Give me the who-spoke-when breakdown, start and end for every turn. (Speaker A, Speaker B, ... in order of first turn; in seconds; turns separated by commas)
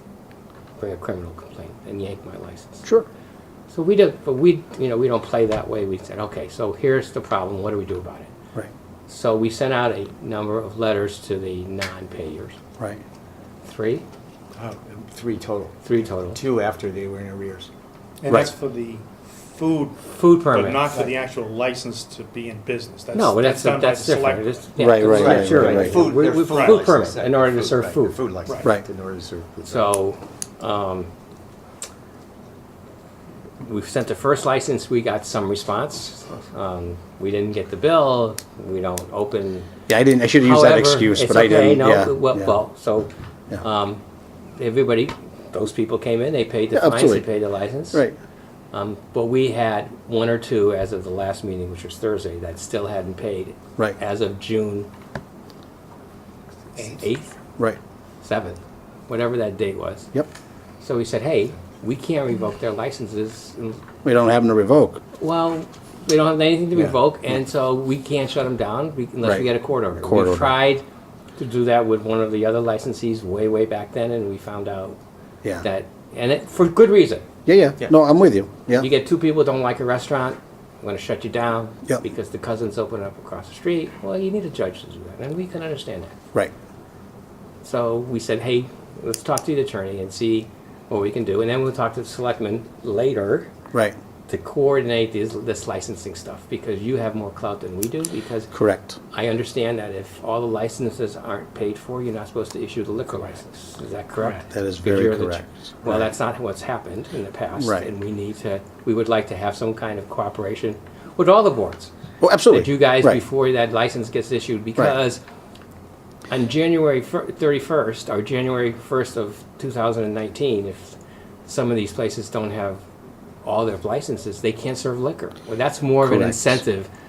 Speaker A: 0.8-2.9, Speaker A: 3.7-8.3, Speaker A: 9.1-12.6, Speaker A: 13.6-14.1, Speaker B: 14.5-17.7, Speaker A: 15.8-16.4, Speaker C: 18.2-24.5, Speaker A: 20.1-21.1, Speaker A: 23.1-28.2, Speaker D: 24.8-26.1, Speaker B: 25.0-29.9, Speaker C: 26.4-26.8, Speaker C: 28.5-28.7, Speaker A: 29.6-31.1, Speaker A: 33.6-39.7, Speaker D: 39.9-42.5, Speaker A: 40.4-43.1, Speaker A: 43.6-44.0, Speaker A: 44.6-48.0, Speaker D: 46.7-47.3, Speaker A: 48.7-54.9, Speaker A: 56.8-57.4, Speaker A: 58.2-60.1, Speaker A: 60.8-63.8, Speaker D: 64.0-65.0, Speaker A: 65.2-70.8, Speaker D: 69.2-70.6, Speaker A: 71.4-75.0, Speaker A: 75.6-77.2, Speaker D: 77.5-78.9, Speaker A: 78.7-86.2, Speaker A: 87.6-93.5, Speaker A: 94.3-98.5, Speaker D: 98.5-99.0, Speaker A: 99.1-111.9, Speaker D: 104.5-106.1, Speaker D: 107.6-107.9, Speaker D: 112.2-113.2, Speaker A: 112.5-115.2, Speaker A: 116.3-122.8, Speaker A: 123.4-126.9, Speaker D: 126.0-126.6